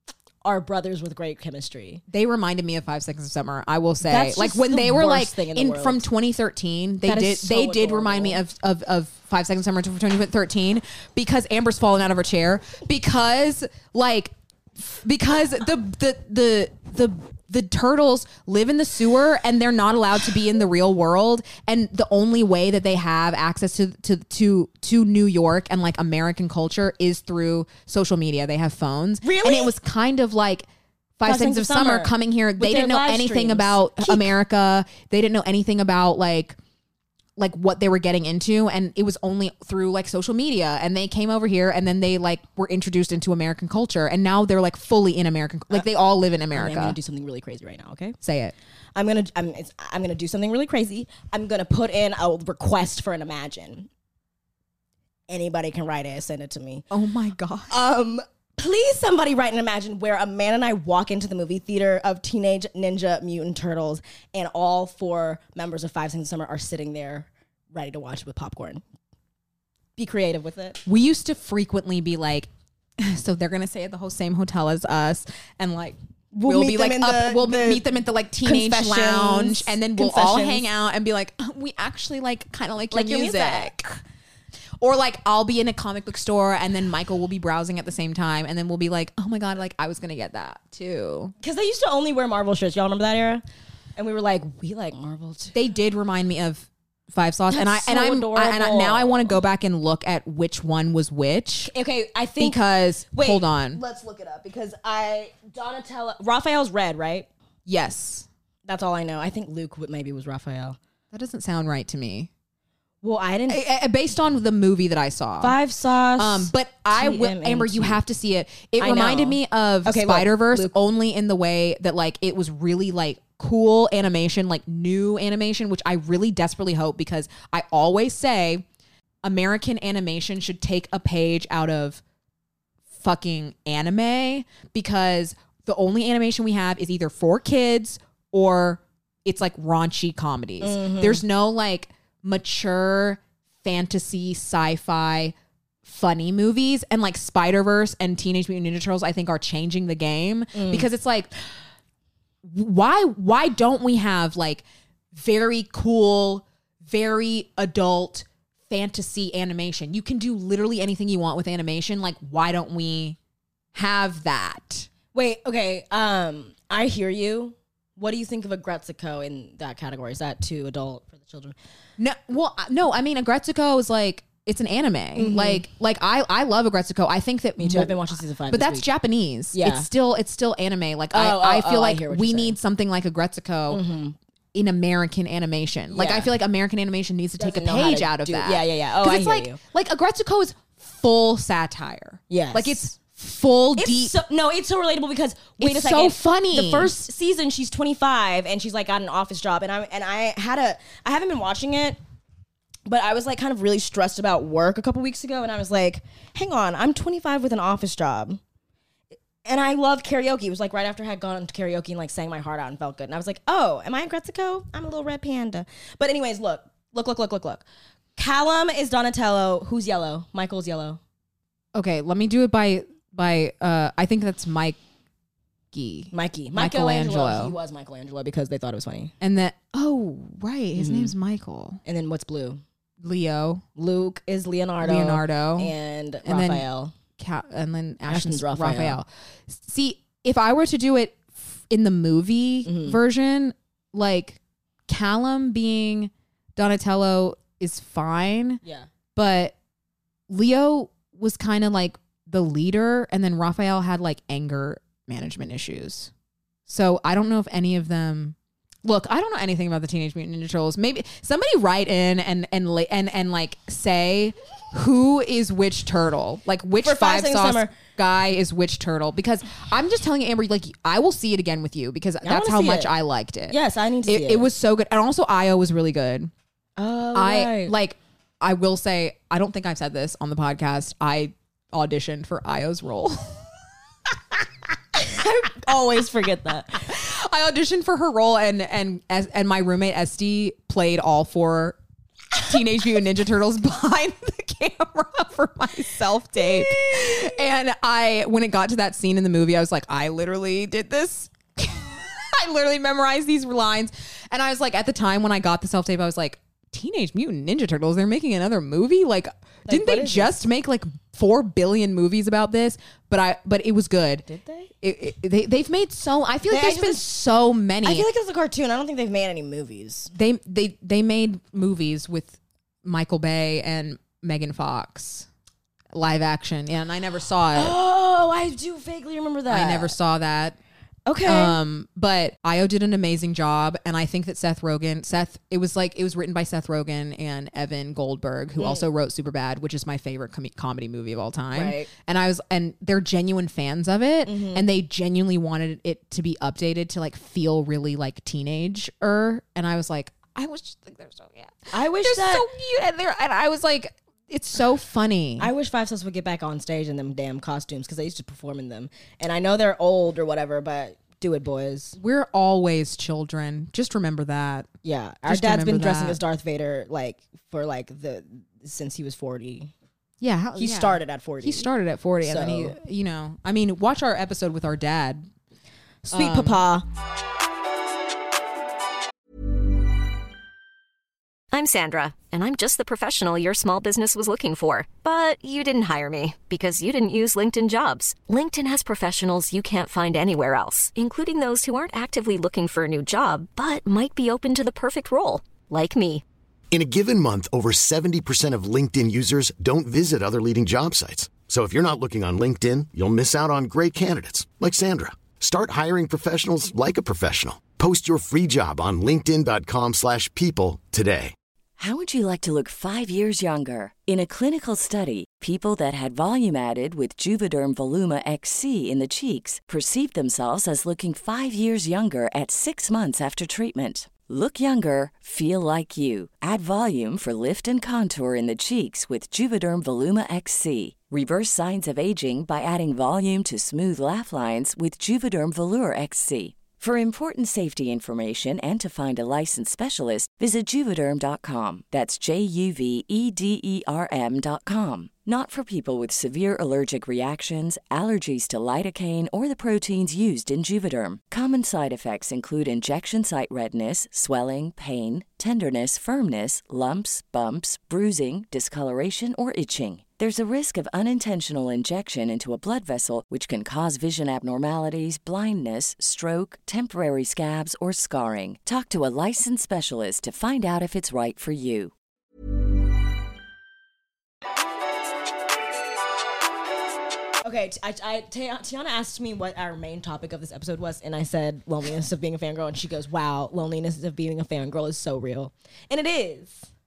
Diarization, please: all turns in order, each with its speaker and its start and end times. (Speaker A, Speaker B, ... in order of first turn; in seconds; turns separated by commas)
Speaker A: 0.4-2.0, Speaker B: 2.1-30.7, Speaker A: 4.0-6.0, Speaker A: 7.0-8.4, Speaker A: 29.2-29.7, Speaker B: 31.2-36.6, Speaker A: 31.2-34.3, Speaker B: 37.4-47.0, Speaker A: 46.5-48.2, Speaker B: 48.2-48.5, Speaker A: 49.0-53.9, Speaker A: 55.3-56.9, Speaker B: 56.9-57.7, Speaker A: 57.7-68.8, Speaker A: 70.0-70.8, Speaker B: 70.9-84.0, Speaker A: 76.3-77.9, Speaker A: 78.4-80.7, Speaker A: 82.9-83.8, Speaker B: 84.8-91.3, Speaker A: 91.4-93.4, Speaker A: 94.0-95.6, Speaker B: 95.5-101.7, Speaker A: 97.5-99.4, Speaker A: 101.7-107.3, Speaker B: 102.4-103.8, Speaker B: 107.7-108.3, Speaker A: 108.7-110.8, Speaker B: 111.1-112.3, Speaker A: 113.0-113.6, Speaker B: 113.5-115.6, Speaker A: 115.4-118.0, Speaker B: 116.2-128.7, Speaker A: 118.8-120.8, Speaker B: 129.2-132.0, Speaker B: 133.0-151.3, Speaker A: 140.6-141.2, Speaker A: 150.5-150.9, Speaker B: 152.4-163.2, Speaker B: 163.7-164.9, Speaker A: 165.1-171.6, Speaker B: 172.0-183.8, Speaker A: 175.2-175.7, Speaker A: 177.6-178.9, Speaker A: 179.5-179.9, Speaker A: 181.1-182.6, Speaker A: 183.7-184.2, Speaker B: 184.5-194.2, Speaker A: 185.9-186.3, Speaker A: 187.4-189.6, Speaker A: 192.3-192.9, Speaker A: 193.8-202.0, Speaker B: 195.6-196.9, Speaker A: 202.9-208.4, Speaker A: 209.4-221.0, Speaker B: 221.8-224.8, Speaker B: 225.7-227.6, Speaker A: 226.1-229.1, Speaker B: 229.2-231.8, Speaker A: 230.8-231.1, Speaker A: 231.9-232.6, Speaker B: 233.0-233.6, Speaker A: 233.8-236.9, Speaker B: 234.8-235.7, Speaker B: 236.2-236.7, Speaker B: 237.2-248.6, Speaker A: 238.1-239.0, Speaker A: 242.7-243.0, Speaker B: 249.2-249.6, Speaker B: 250.3-256.1, Speaker B: 256.7-276.3, Speaker A: 266.8-267.8, Speaker A: 272.2-272.9, Speaker A: 273.5-274.5, Speaker A: 276.8-277.7, Speaker B: 277.1-283.4, Speaker A: 285.0-286.9, Speaker B: 286.8-291.8, Speaker B: 292.4-314.3, Speaker A: 296.4-297.4, Speaker A: 309.7-310.3, Speaker A: 314.3-314.7, Speaker B: 314.8-318.1, Speaker A: 316.5-317.1, Speaker A: 317.8-320.1, Speaker B: 320.1-325.3, Speaker B: 325.9-327.8, Speaker A: 327.5-329.9, Speaker B: 329.5-330.6, Speaker A: 331.1-331.6, Speaker B: 331.2-355.5, Speaker A: 338.6-338.9, Speaker A: 341.5-341.9, Speaker A: 344.2-344.7, Speaker A: 351.7-352.5, Speaker A: 355.4-362.0, Speaker B: 362.0-364.7, Speaker A: 364.8-369.7, Speaker B: 365.3-366.2, Speaker B: 370.2-375.3, Speaker A: 370.6-371.7, Speaker A: 372.2-372.8, Speaker A: 376.1-376.9, Speaker B: 376.1-376.6, Speaker C: 381.5-396.2, Speaker D: 396.7-411.3, Speaker E: 411.8-471.9, Speaker A: 477.4-486.7